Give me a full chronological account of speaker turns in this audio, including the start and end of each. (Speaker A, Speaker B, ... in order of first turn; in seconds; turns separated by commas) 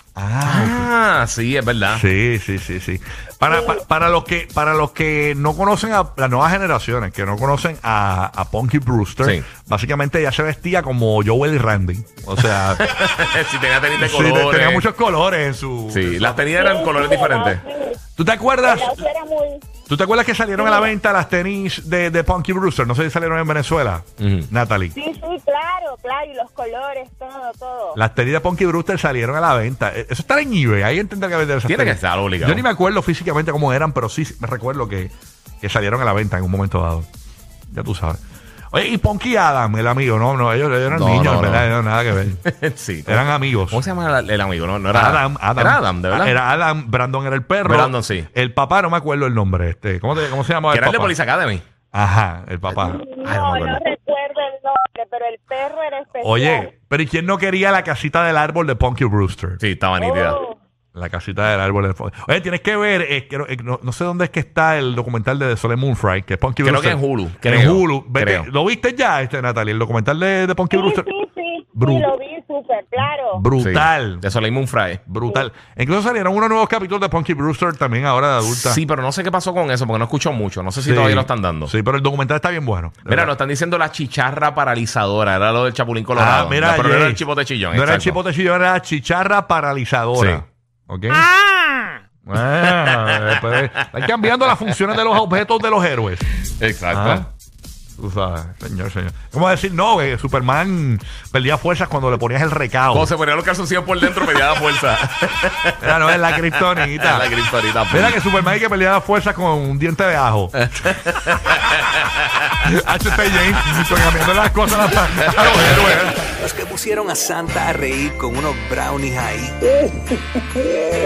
Speaker A: 0.1-0.9, Speaker B: 0.4-2.0, Speaker A: 1.9-12.8, Speaker C: 3.5-3.8, Speaker B: 12.8-14.8, Speaker A: 13.9-16.4, Speaker B: 15.9-17.6, Speaker C: 16.5-18.0, Speaker A: 18.2-18.9, Speaker C: 18.6-19.6, Speaker A: 19.9-24.9, Speaker C: 20.6-20.9, Speaker B: 24.2-24.5, Speaker C: 24.9-28.0, Speaker A: 27.9-37.0, Speaker B: 31.6-32.6, Speaker A: 37.7-38.2, Speaker A: 38.7-42.4, Speaker B: 40.9-41.7, Speaker B: 42.4-46.4, Speaker A: 43.0-43.8, Speaker A: 44.9-51.1, Speaker B: 47.6-48.3, Speaker B: 50.7-51.6, Speaker A: 51.9-53.0, Speaker B: 52.7-53.8, Speaker C: 52.8-56.7, Speaker A: 56.2-59.6, Speaker B: 59.6-60.4, Speaker C: 60.0-60.6, Speaker A: 60.9-71.1, Speaker B: 66.6-68.5, Speaker C: 70.7-73.5, Speaker A: 71.8-72.1, Speaker A: 73.0-74.2, Speaker B: 73.6-75.0, Speaker A: 75.0-78.8, Speaker B: 78.4-81.7, Speaker A: 80.8-83.3, Speaker B: 83.1-88.2, Speaker A: 86.1-91.3, Speaker B: 90.1-90.4, Speaker A: 92.2-96.3, Speaker B: 92.7-93.5, Speaker B: 96.6-97.2, Speaker A: 96.9-97.3, Speaker A: 98.0-103.1, Speaker B: 102.9-108.2, Speaker A: 105.8-107.3, Speaker A: 107.9-110.9, Speaker B: 110.8-112.2, Speaker A: 112.6-116.2, Speaker B: 113.7-114.2, Speaker D: 116.3-119.7